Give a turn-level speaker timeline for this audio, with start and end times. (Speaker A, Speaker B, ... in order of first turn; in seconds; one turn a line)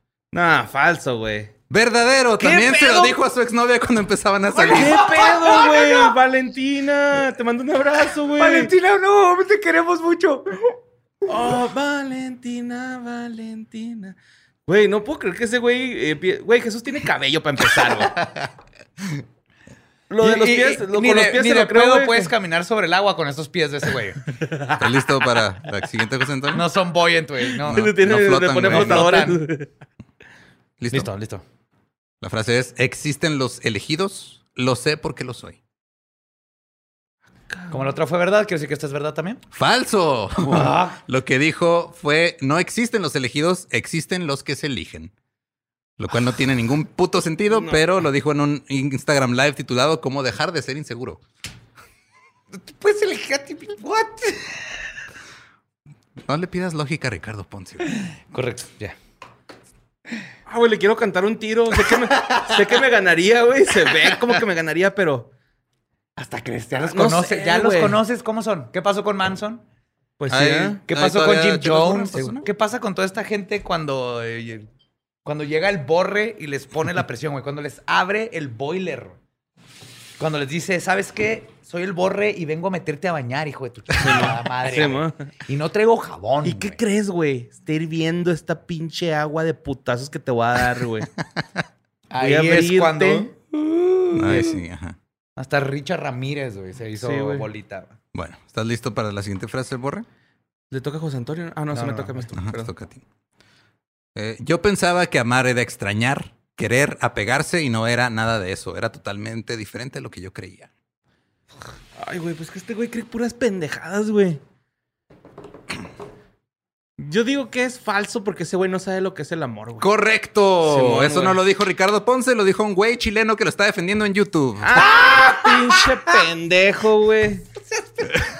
Speaker A: 0.3-1.5
Speaker B: 1.7-5.0
Speaker C: 2.4-3.1
Speaker C: 4.6-6.1
Speaker A: 4.7-8.7
Speaker C: 8.4-10.8
Speaker A: 11.3-14.2
Speaker A: 14.7-18.1
Speaker B: 18.2-18.5
Speaker A: 20.1-22.3
Speaker C: 20.2-24.2
Speaker A: 24.3-24.8
Speaker B: 24.8-26.6
Speaker C: 26.5-27.9
Speaker A: 27.6-29.7
Speaker B: 27.7-29.2
Speaker C: 28.6-29.4
Speaker B: 30.8-31.1
Speaker C: 30.9-31.4
Speaker B: 32.2-35.6
Speaker A: 37.5-37.8
Speaker C: 37.7-39.4
Speaker B: 39.5-45.1
Speaker C: 40.4-41.0
Speaker B: 46.0-51.2
Speaker A: 47.5-47.8
Speaker C: 52.5-54.6
Speaker B: 56.2-57.9
Speaker C: 58.3-59.0
Speaker A: 60.5-65.3
Speaker C: 66.2-69.6
Speaker A: 66.8-68.0
Speaker A: 70.2-70.8
Speaker B: 70.3-72.5
Speaker C: 70.9-74.7
Speaker C: 75.2-79.2
Speaker C: 80.2-86.8
Speaker A: 84.0-85.3
Speaker A: 86.4-91.1
Speaker C: 92.1-94.5
Speaker A: 92.2-93.3
Speaker B: 94.1-95.0
Speaker C: 95.4-98.0
Speaker A: 97.0-97.5
Speaker B: 98.1-100.1
Speaker A: 100.7-102.7
Speaker C: 101.7-102.3
Speaker B: 102.4-103.0
Speaker B: 104.2-110.7
Speaker A: 112.0-114.4
Speaker A: 117.0-119.9
Speaker B: 119.8-125.1
Speaker A: 120.6-121.4
Speaker A: 124.6-127.5
Speaker C: 124.8-125.5
Speaker C: 127.6-128.2